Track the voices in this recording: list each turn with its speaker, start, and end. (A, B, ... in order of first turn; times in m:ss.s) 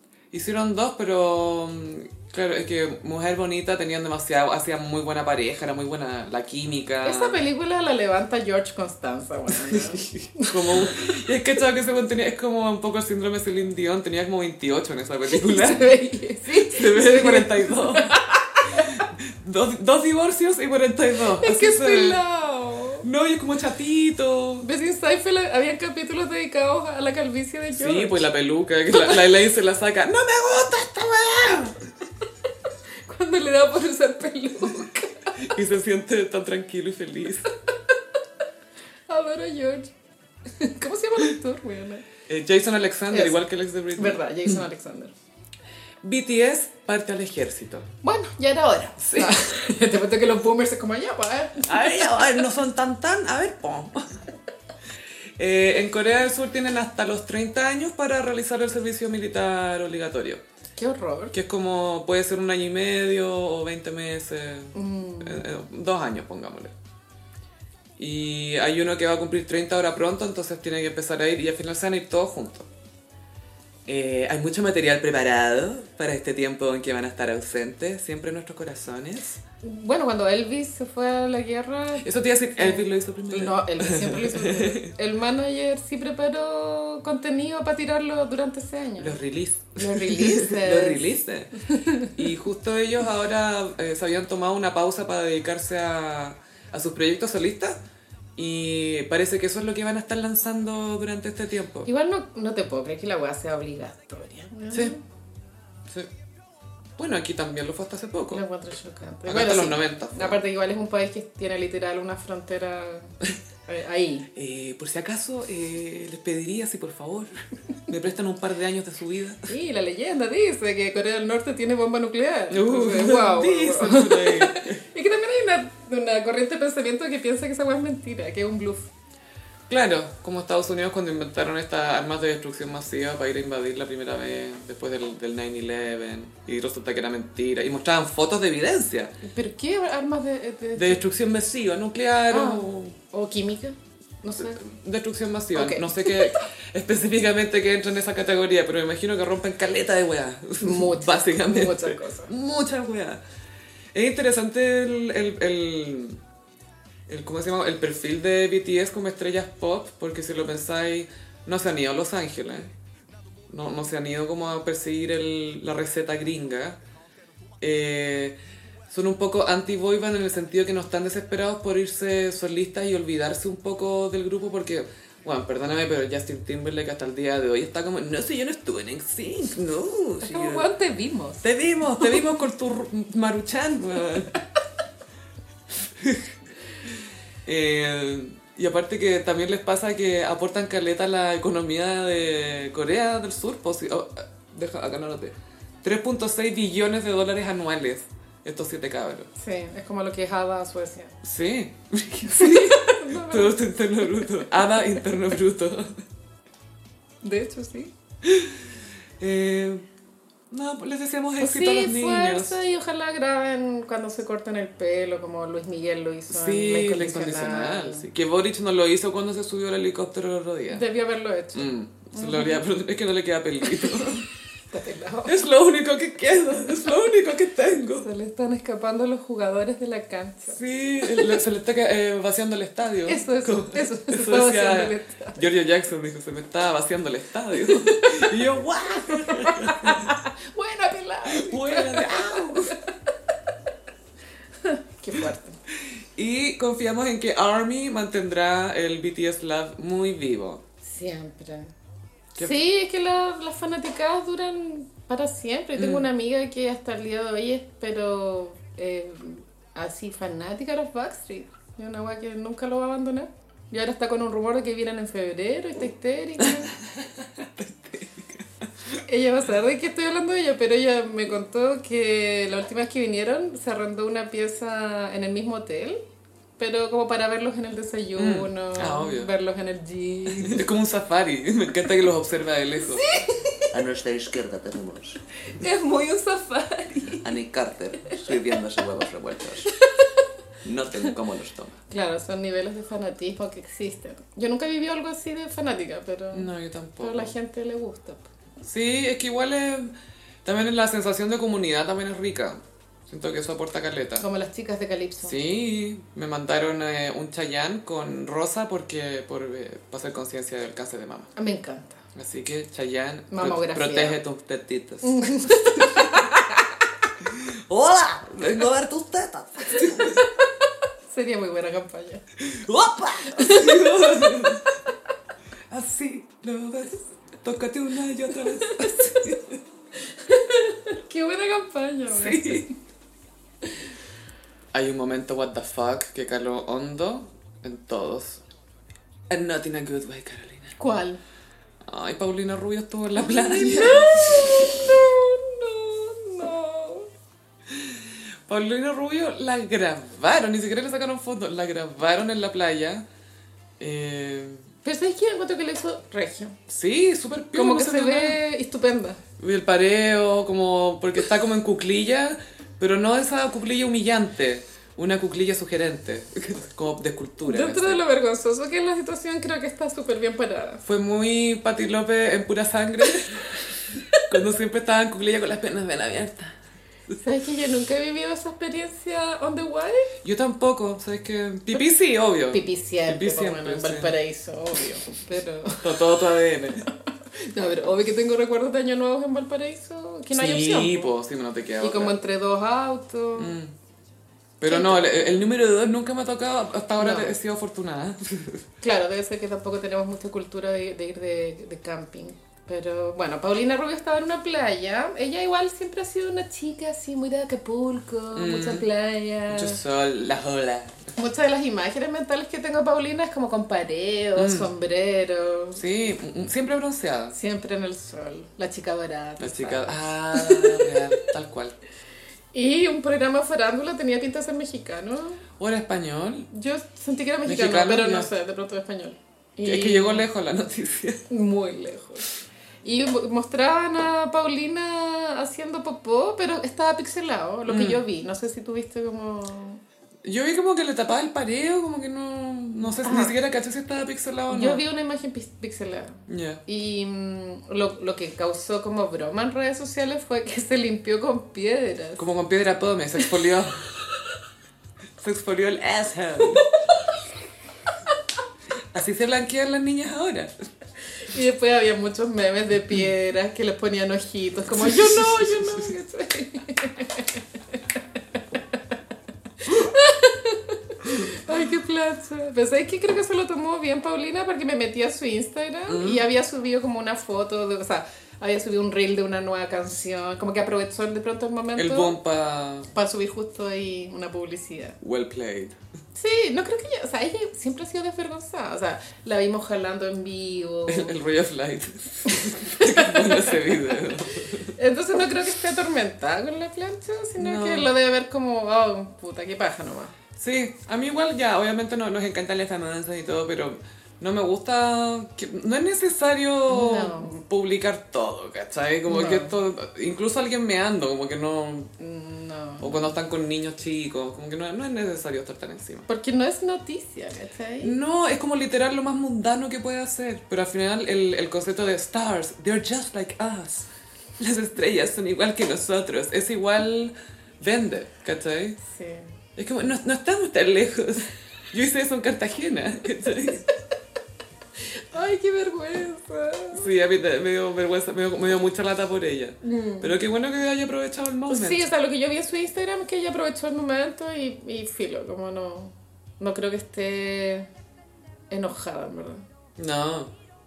0:00.3-0:07.4 A
0:07.0-0:11.3 B
0:09.5-0:15.9 A
0:15.3-0:19.0 B
0:16.5-0:18.2 A
0:18.7-0:22.2 A
0:21.4-0:23.1 B
0:23.0-0:24.7 A
0:24.6-0:28.3 B
0:27.7-0:31.8 A
0:28.9-0:29.2 B
0:33.1-0:35.3 B
0:35.4-0:37.5 A
0:39.1-0:39.9 B
0:40.5-0:42.0 B
0:42.3-0:44.6 A
0:43.1-0:43.4 B
0:44.0-0:45.1 B
0:46.0-0:47.9 A
0:48.0-0:52.2 B
0:49.0-0:49.4 A
0:51.6-0:54.1 A
0:55.4-1:00.4 A
1:00.8-1:01.4 B
1:01.3-1:06.7 A
1:04.7-1:05.5 B
1:08.0-1:12.7 A
1:13.9-1:19.4 A
1:19.6-1:29.2 B
1:22.0-1:24.9 A
1:29.0-1:31.5 A
1:29.8-1:31.1 B
1:31.6-1:32.2 B
1:32.1-1:37.8 A
1:38.4-1:41.9 A
1:41.9-1:45.0 B
1:47.0-1:48.4 A
1:48.3-1:54.3 B
1:49.2-1:50.4 A
1:54.4-1:57.4 A
1:57.9-1:59.5 A
1:59.5-2:08.9 B
2:02.5-2:04.8 A
2:09.7-2:19.1 A
2:19.2-2:21.0 B
2:20.8-2:23.0 A
2:22.3-2:24.6 B
2:24.4-2:33.2 A
2:25.5-2:26.4 B
2:30.6-2:32.3 B
2:33.9-2:36.2 A
2:37.1-2:42.7 A
2:43.5-2:46.8 A
2:47.6-2:48.4 A
2:48.9-3:00.7 A
3:00.2-3:01.4 B
3:01.4-3:04.4 A
3:05.8-3:06.3 A
3:07.4-3:19.3 A
3:19.4-3:21.2 B
3:21.2-3:25.9 A
3:22.3-3:24.5 B
3:27.2-3:27.9 B
3:28.2-3:28.6 A
3:29.2-3:29.8 A
3:30.5-3:32.6 A
3:31.4-3:38.1 B
3:36.3-3:40.9 A
3:40.7-3:42.6 B
3:41.5-3:44.3 A
3:43.8-3:44.1 B
3:44.7-3:45.4 B
3:45.2-3:48.1 A
3:48.0-3:50.6 B
3:50.5-4:00.2 A
3:53.1-3:55.4 B
3:57.6-3:58.4 B
3:59.1-4:02.8 B
4:01.2-4:02.8 A
4:04.6-4:05.6 B
4:06.2-4:10.6 A
4:10.8-4:11.7 B
4:12.4-4:26.7 B
4:15.8-4:16.1 A
4:27.0-4:29.0 A
4:29.1-4:36.0 B
4:36.6-4:40.7 B
4:38.2-4:39.3 A
4:40.3-4:43.1 A
4:42.9-4:43.7 B
4:43.7-4:45.2 C
4:45.5-4:47.3 B
4:47.2-4:49.5 C
4:48.1-4:49.7 A
4:49.7-4:50.2 B
4:50.6-4:51.8 A
4:51.9-4:58.3 B
4:56.3-4:57.3 A
4:58.6-4:59.9 A
5:00.4-5:04.3 A
5:04.2-5:05.4 B
5:05.2-5:11.3 A
5:11.4-5:12.0 B
5:12.1-5:16.2 A
5:13.3-5:14.2 B
5:15.0-5:16.7 B
5:17.3-5:20.2 A
5:18.4-5:19.0 C
5:19.7-5:20.4 B
5:21.1-5:22.2 B
5:22.4-5:24.7 A
5:23.3-5:24.5 B
5:25.7-5:29.6 A
5:28.6-5:29.1 B
5:30.1-5:32.7 B
5:32.1-5:32.7 A
5:34.7-5:38.4 A
5:39.3-5:40.7 A
5:40.8-5:41.2 B
5:41.8-5:45.0 A
5:43.2-5:47.1 B
5:47.7-5:53.0 A
5:53.8-5:54.7 A
5:54.8-5:56.6 B
5:56.7-5:58.4 A
5:57.5-5:59.2 B
5:59.4-6:08.0 A
6:07.4-6:10.8 B
6:10.8-6:13.6 A
6:14.2-6:16.6 A
6:17.2-6:20.1 B
6:20.2-6:24.1 A
6:22.5-6:26.2 B
6:25.8-6:26.9 A
6:27.4-6:31.1 B
6:30.3-6:32.2 A
6:31.8-6:33.6 B
6:33.4-6:33.7 A
6:34.6-6:38.6 A
6:34.7-6:35.4 B
6:37.0-6:37.3 B
6:38.8-6:49.8 B
6:48.4-6:48.9 A
6:49.5-6:51.1 A
6:51.2-6:55.8 B
6:54.4-6:54.7 A
6:55.8-6:57.4 A
6:57.3-7:01.2 B
6:59.4-7:01.8 A
7:02.5-7:05.4 B
7:05.6-7:06.5 A
7:06.5-7:10.2 B
7:07.4-7:08.3 A
7:09.6-7:11.2 A
7:11.3-7:12.3 B
7:12.8-7:19.8 B
7:17.7-7:18.0 A
7:20.2-7:24.8 A
7:23.0-7:23.4 B
7:24.5-7:32.3 B
7:26.3-7:26.6 A
7:32.2-7:33.8 A
7:35.2-7:36.7 A
7:38.9-7:40.5 A
7:41.2-7:47.8 B
7:44.9-7:45.8 A
7:49.6-8:02.2 B
7:55.9-7:56.2 A
8:01.8-8:02.9 A
8:02.9-8:05.0 B
8:05.0-8:05.8 A
8:06.1-8:11.1 B
8:10.9-8:14.7 A
8:12.3-8:13.8 B
8:14.7-8:20.1 B
8:17.4-8:17.9 A
8:20.4-8:31.9 A
8:26.7-8:27.4 B
8:29.1-8:29.6 B
8:32.0-8:33.1 B
8:32.8-8:36.1 A
8:36.1-8:38.0 B
8:37.8-8:48.8 A
8:48.8-8:49.3 B
8:49.6-8:53.7 A
8:55.1-8:56.9 B
8:56.7-9:01.9 A
8:59.6-9:00.1 B
9:01.5-9:07.7 B
9:08.5-9:09.4 B
9:09.8-9:10.3 A